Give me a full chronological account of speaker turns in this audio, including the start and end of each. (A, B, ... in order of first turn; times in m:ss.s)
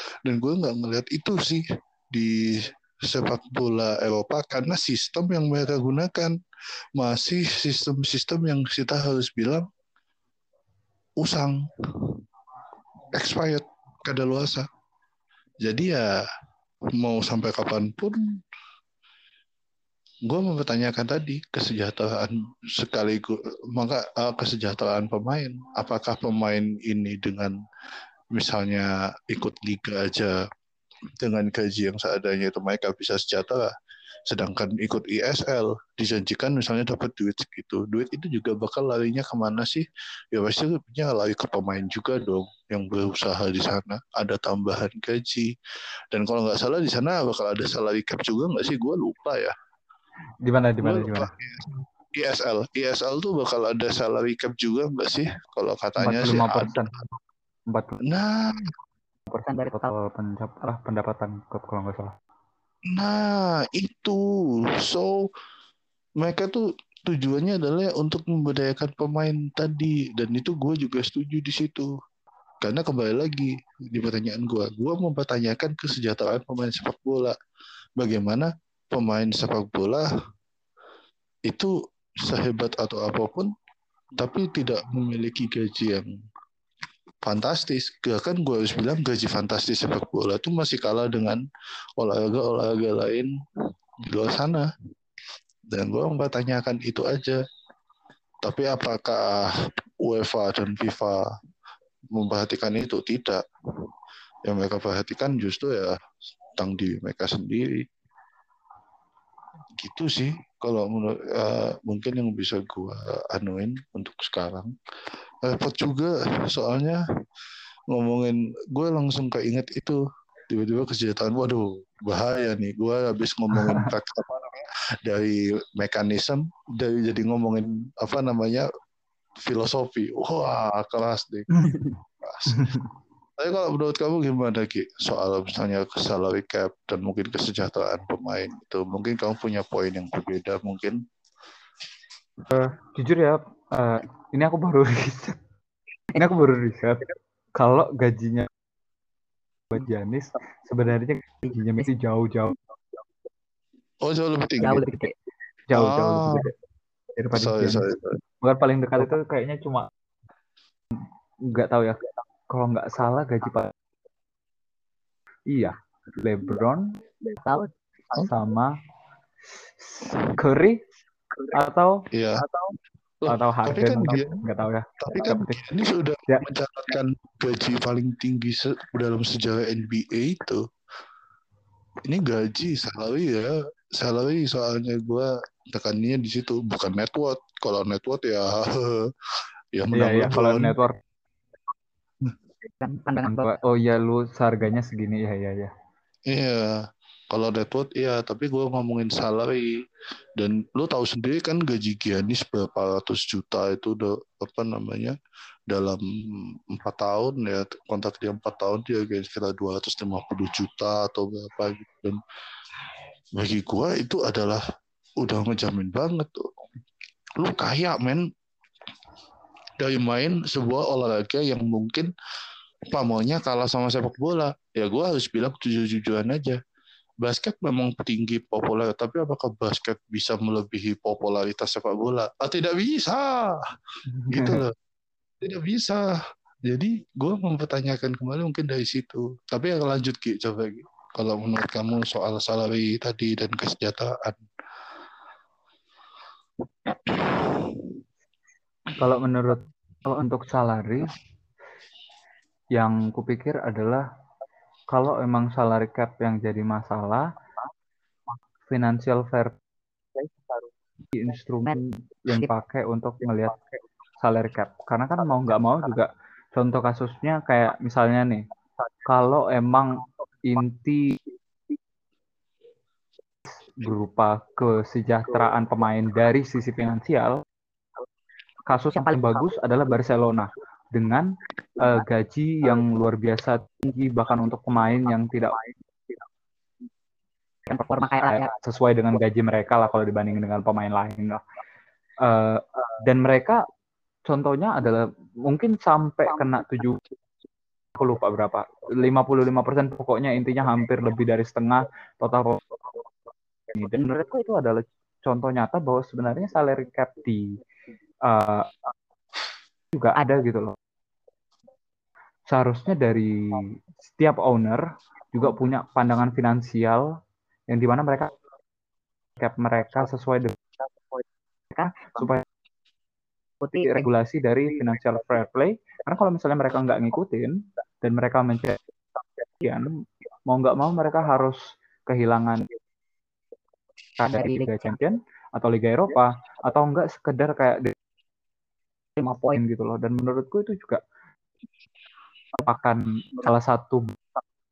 0:00.2-0:06.4 A
0:07.0-0:09.7 A
0:11.2-0:12.2 A
0:13.1-0:14.7 A
0:15.6-0:16.1 A
0:17.0-0:18.2 A
0:20.2-0:27.6 A
0:28.3-0:30.4 A
0:31.2-0:33.7 A
0:34.3-0:45.5 A
0:46.1-0:49.5 A
0:50.4-0:51.3 B
0:50.8-0:57.0 A
0:56.0-0:56.9 B
0:57.7-0:58.0 B
0:58.1-0:58.7 A
0:59.3-1:02.1 B
1:02.9-1:04.2 A
1:04.8-1:05.1 A
1:06.2-1:11.9 A
1:12.6-1:17.4 A
1:18.0-1:20.1 A
1:21.5-1:23.5 A
1:24.2-1:26.1 A
1:27.2-1:31.4 A
1:32.0-1:33.3 A
1:34.1-1:34.7 A
1:35.7-1:37.4 A
1:38.4-1:39.5 A
1:40.0-1:41.2 A
1:42.1-1:43.4 A
1:44.4-1:46.0 A
1:46.6-1:47.8 A
1:49.8-1:54.7 A
1:55.4-1:57.0 A
1:57.9-2:00.0 A
2:00.5-2:08.7 A
2:03.6-2:03.9 B
2:09.4-2:11.5 A
2:12.2-2:12.8 A
2:12.6-2:12.8 B
2:13.4-2:21.0 A
2:22.5-2:25.4 B
2:26.1-2:28.5 B
2:29.7-2:32.6 B
2:34.0-2:34.9 A
2:34.6-2:35.1 C
2:35.7-2:36.5 B
2:35.7-2:36.5 A
2:37.2-2:39.9 B
2:37.3-2:38.2 A
2:41.4-2:43.7 B
2:45.5-2:46.9 B
2:47.4-2:47.7 C
2:48.2-2:48.7 B
2:50.0-2:50.8 B
2:51.5-2:52.0 B
2:52.1-2:52.4 A
2:53.2-2:54.4 A
2:53.3-2:55.6 B
2:55.0-3:00.6 A
3:02.0-3:09.1 A
3:09.7-3:10.7 A
3:09.9-3:10.9 B
3:12.8-3:13.4 C
3:13.2-3:15.7 B
3:16.3-3:19.8 A
3:20.4-3:25.1 A
3:25.7-3:32.2 A
3:33.4-3:34.6 A
3:35.2-3:36.5 A
3:37.4-3:38.2 A
3:39.8-3:42.1 A
3:42.9-3:46.6 A
3:47.2-3:53.6 A
3:54.1-3:54.6 B
3:54.3-3:54.7 A
3:55.4-3:56.1 A
3:56.7-4:04.4 A
4:07.0-4:07.9 A
4:09.0-4:11.1 B
4:12.7-4:14.0 B
4:14.9-4:17.3 B
4:18.7-4:19.5 B
4:21.1-4:23.6 B
4:24.2-4:28.4 B
4:29.0-4:31.2 B
4:33.7-4:37.4 B
4:38.7-4:45.6 B
4:47.7-4:48.4 C
4:48.3-4:51.4 B
4:52.2-4:53.6 B
4:54.3-4:57.0 B
4:58.0-5:02.6 B
5:03.7-5:07.6 B
5:08.3-5:08.7 B
5:09.9-5:10.8 B
5:12.5-5:17.1 B
5:17.7-5:18.3 B
5:19.4-5:20.6 B
5:21.7-5:22.1 C
5:22.0-5:22.4 B
5:23.7-5:28.8 B
5:29.6-5:29.9 B
5:30.5-5:32.7 B
5:34.2-5:37.9 B
5:39.3-5:41.0 B
5:42.6-5:44.1 B